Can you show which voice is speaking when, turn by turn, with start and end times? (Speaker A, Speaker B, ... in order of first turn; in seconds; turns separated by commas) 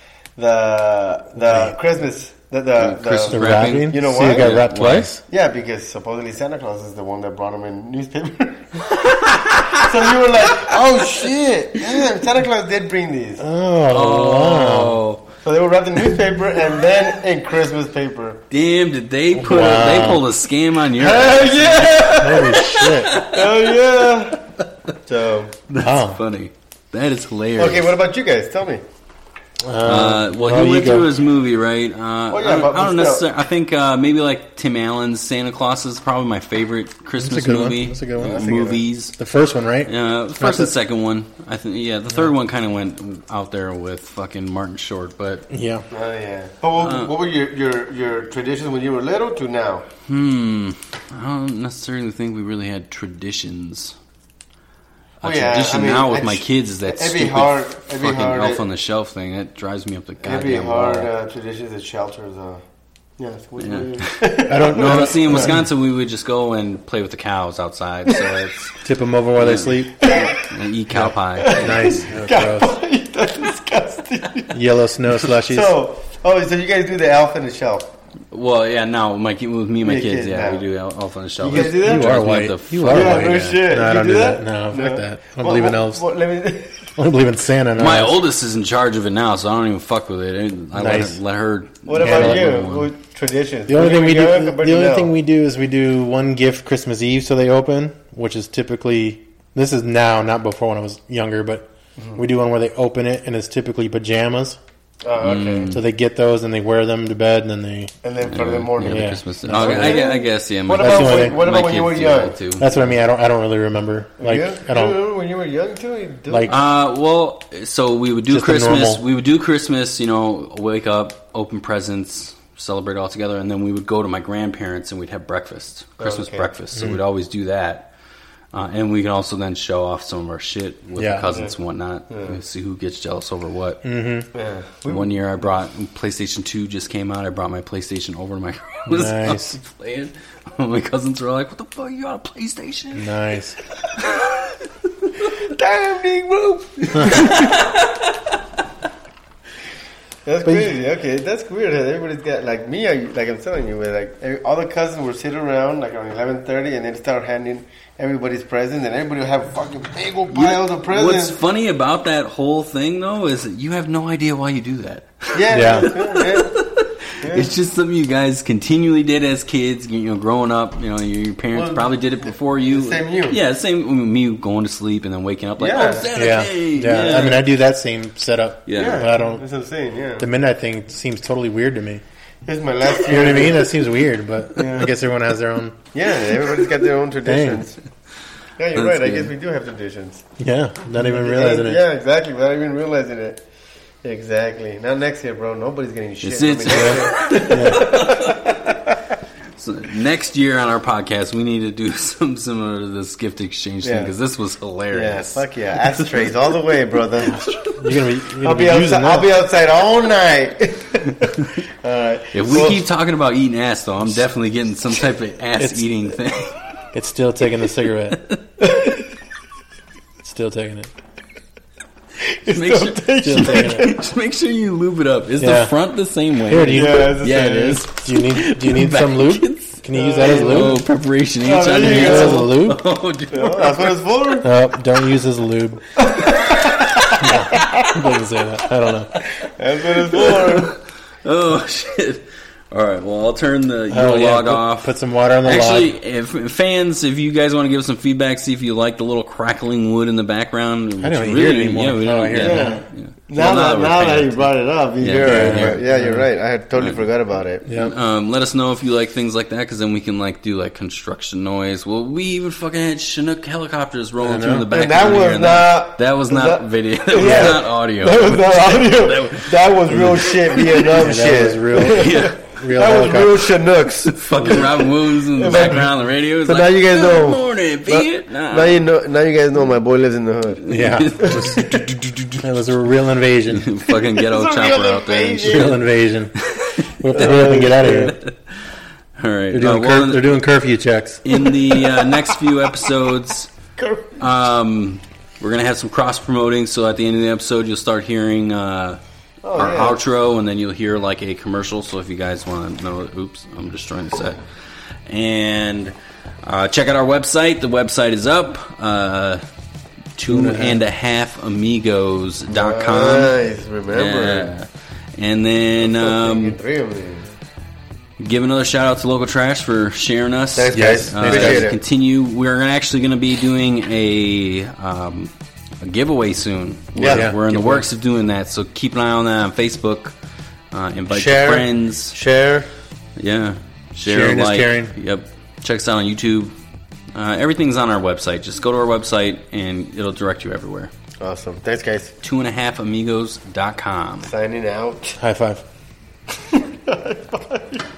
Speaker A: 0.3-4.7, Speaker B: 2.8-5.1, Speaker C: 3.3-5.2, Speaker A: 5.2-13.4, Speaker B: 8.9-11.0, Speaker C: 13.4-15.0, Speaker B: 13.9-15.3, Speaker A: 15.4-18.4, Speaker B: 18.5-23.6, Speaker C: 19.4-20.2, Speaker A: 21.0-24.5, Speaker C: 22.2-23.1, Speaker A: 25.0-25.6, Speaker B: 25.7-27.9, Speaker C: 25.8-26.2, Speaker A: 27.6-28.8, Speaker C: 29.6-31.1, Speaker B: 29.8-39.2, Speaker A: 32.3-33.3, Speaker C: 37.2-38.5, Speaker A: 38.2-38.8, Speaker C: 39.2-40.7, Speaker B: 39.8-45.5, Speaker C: 45.5-45.8, Speaker A: 45.9-49.8, Speaker B: 46.8-47.1, Speaker B: 50.1-54.0, Speaker B: 55.2-61.1, Speaker A: 55.2-58.6, Speaker A: 60.2-62.6, Speaker A: 63.2-65.5, Speaker B: 63.6-68.7, Speaker C: 64.5-65.7, Speaker C: 68.8-70.0, Speaker B: 69.4-72.0, Speaker A: 70.0-70.4, Speaker C: 70.9-72.8, Speaker A: 71.4-74.6, Speaker C: 74.5-75.7, Speaker A: 75.2-77.9, Speaker B: 78.3-83.6, Speaker A: 79.8-80.6, Speaker A: 81.4-82.3, Speaker C: 81.5-86.0, Speaker A: 82.8-86.9, Speaker C: 87.0-88.2, Speaker B: 87.8-92.9, Speaker C: 90.7-91.2, Speaker A: 91.8-95.1, Speaker C: 92.0-92.6, Speaker C: 93.7-104.6, Speaker A: 102.0-102.2, Speaker A: 105.0-105.8, Speaker B: 105.2-105.8, Speaker C: 105.7-107.9, Speaker A: 108.0-112.8, Speaker B: 108.2-112.7, Speaker C: 108.8-110.0, Speaker C: 110.8-111.5, Speaker C: 112.6-115.0, Speaker A: 114.2-116.6, Speaker B: 116.5-127.9, Speaker C: 118.3-119.0, Speaker A: 126.0-126.5, Speaker C: 126.7-127.0, Speaker B: 128.5-133.8, Speaker C: 131.0-131.3, Speaker A: 132.1-132.4, Speaker C: 133.8-134.3, Speaker A: 134.3-135.2, Speaker B: 134.8-143.1, Speaker C: 138.9-139.6, Speaker C: 142.9-143.6, Speaker B: 143.9-145.3, Speaker A: 145.3-147.6, Speaker B: 146.9-148.2, Speaker C: 146.9-147.3, Speaker A: 150.2-161.4, Speaker B: 160.3-177.4, Speaker A: 165.3-166.5, Speaker C: 165.5-165.9, Speaker A: 167.2-167.5, Speaker A: 171.5-173.4, Speaker A: 175.6-176.1, Speaker C: 176.1-179.4, Speaker B: 178.7-179.1, Speaker A: 178.8-180.3, Speaker C: 180.2-182.0, Speaker A: 182.4-183.7, Speaker C: 183.1-185.8, Speaker A: 184.6-184.9, Speaker A: 185.9-187.8, Speaker C: 187.2-187.6, Speaker A: 188.6-190.2, Speaker B: 188.7-189.3, Speaker C: 190.4-191.8, Speaker A: 191.0-193.4, Speaker A: 194.0-199.0, Speaker B: 196.2-198.6, Speaker C: 196.7-197.8, Speaker B: 199.5-206.7, Speaker A: 203.8-204.1, Speaker A: 204.9-207.4, Speaker C: 207.3-209.3, Speaker A: 208.4-212.8, Speaker B: 212.3-216.5, Speaker C: 215.6-215.8, Speaker C: 216.9-218.2, Speaker B: 218.1-218.4, Speaker A: 218.6-219.1, Speaker C: 220.2-220.9, Speaker A: 222.3-224.0, Speaker B: 222.4-233.9, Speaker C: 223.2-223.9, Speaker C: 225.4-225.7, Speaker C: 226.4-230.8, Speaker A: 226.7-227.8, Speaker A: 229.9-230.8, Speaker A: 231.4-232.5, Speaker C: 231.8-232.8, Speaker A: 233.3-234.5, Speaker C: 234.4-235.9, Speaker A: 236.0-237.0, Speaker B: 236.2-237.9, Speaker C: 237.2-239.1, Speaker B: 239.1-239.4, Speaker A: 239.4-240.8, Speaker B: 240.1-254.4, Speaker C: 243.9-245.9, Speaker C: 251.0-252.8, Speaker A: 252.3-257.7, Speaker B: 255.0-255.8, Speaker C: 255.2-256.2, Speaker B: 256.8-257.0, Speaker C: 257.7-257.9, Speaker B: 257.7-271.1, Speaker C: 264.2-264.7, Speaker A: 264.7-275.9, Speaker C: 267.2-267.6, Speaker C: 270.9-273.5, Speaker B: 271.9-272.4, Speaker B: 274.0-278.8, Speaker A: 276.4-281.5, Speaker B: 280.6-282.4, Speaker C: 280.7-283.7, Speaker B: 283.5-285.8, Speaker A: 284.1-285.8, Speaker C: 285.4-286.3, Speaker B: 286.4-288.4, Speaker C: 287.0-288.2, Speaker A: 287.1-288.2, Speaker B: 289.2-290.3, Speaker C: 289.5-291.2, Speaker B: 291.2-293.5, Speaker A: 291.7-292.3, Speaker A: 293.8-294.1, Speaker B: 294.2-299.0, Speaker A: 299.4-300.0, Speaker B: 299.5-304.4, Speaker B: 305.1-309.4, Speaker B: 310.1-313.3, Speaker C: 310.3-310.8, Speaker A: 312.5-314.5, Speaker B: 313.9-316.6, Speaker A: 315.8-317.3, Speaker B: 318.2-330.1, Speaker A: 320.6-321.8, Speaker C: 320.7-321.7, Speaker A: 326.9-327.3, Speaker C: 327.1-327.8, Speaker B: 330.7-332.1, Speaker A: 331.1-332.7, Speaker B: 333.2-336.5, Speaker C: 334.0-334.9, Speaker B: 337.1-340.9, Speaker A: 341.2-342.1, Speaker B: 342.2-344.3, Speaker A: 344.2-345.2, Speaker C: 345.2-345.6, Speaker A: 346.3-347.8